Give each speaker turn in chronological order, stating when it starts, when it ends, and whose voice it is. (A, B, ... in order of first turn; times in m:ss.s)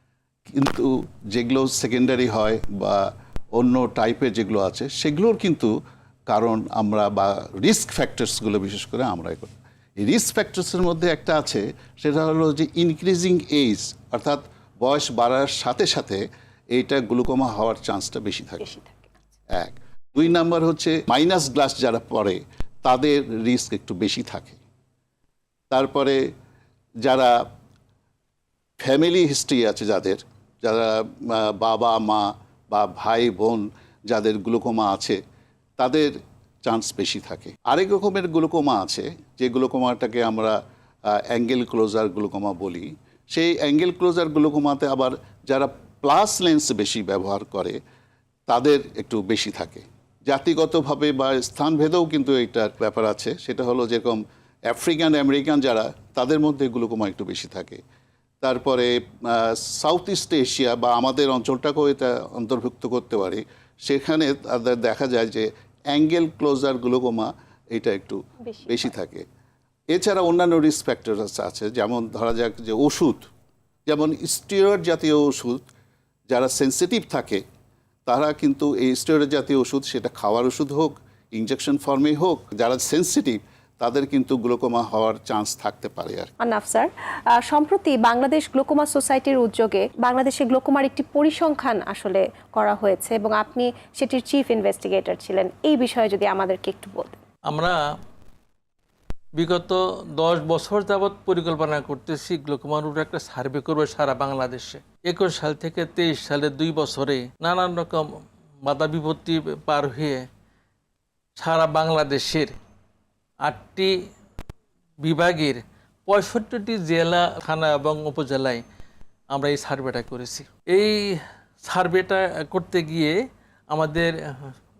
0:00.5-0:03.0 A
0:03.5-0:05.7 A
0:06.3-0:18.7 A
0:18.6-0:19.2 B
0:19.5-0:24.6 A
0:25.7-0:26.2 A
0:27.0-0:27.3 A
0:28.8-0:35.2 A
0:35.8-0:36.1 A
0:36.6-0:40.6 A
0:41.3-0:47.8 A
0:48.5-0:57.8 A
0:58.4-1:09.2 A
1:08.4-1:08.9 B
1:09.9-1:13.2 A
1:13.8-1:15.6 A
1:16.3-1:17.4 A
1:18.1-1:26.3 A
1:26.4-1:37.2 B
1:37.5-1:37.8 C
1:39.4-1:48.0 C
1:48.6-1:50.2 C
1:51.4-1:52.5 C
1:53.4-1:53.9 C
1:55.0-1:58.6 C
1:59.3-2:03.2 C
2:03.7-2:04.5 C